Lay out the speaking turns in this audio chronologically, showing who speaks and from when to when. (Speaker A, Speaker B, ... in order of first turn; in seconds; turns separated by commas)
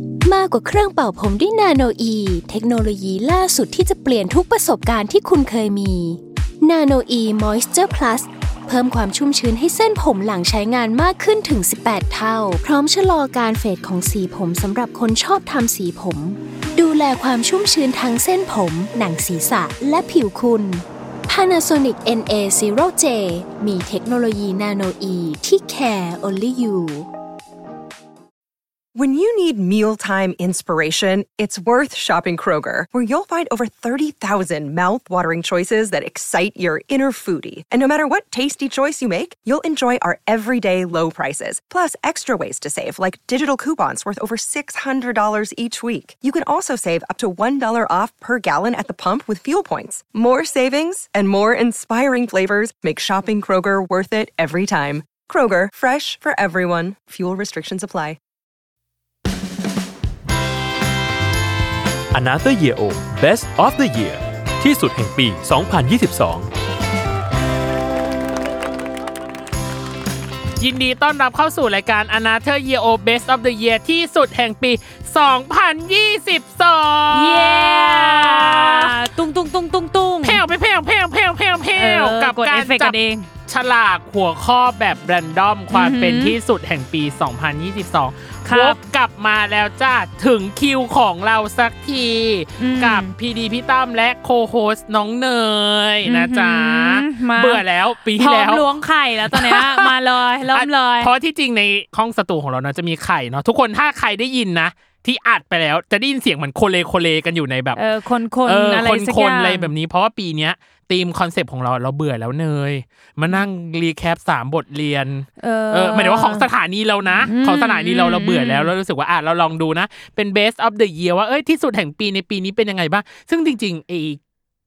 Speaker A: 0.2-27.1, Speaker B: 28.9-58.2, Speaker C: 62.1-66.5, Speaker D: 70.6-79.0, Speaker E: 77.1-80.4, Speaker D: 80.2-83.0, Speaker E: 81.8-83.3, Speaker D: 83.5-98.7, Speaker E: 85.7-86.3, Speaker E: 88.5-88.8, Speaker E: 92.6-93.1, Speaker E: 96.0-101.1, Speaker D: 99.3-99.9, Speaker D: 100.5-107.8, Speaker E: 107.8-109.7, Speaker D: 108.5-124.2, Speaker E: 115.4-116.5, Speaker E: 117.2-118.7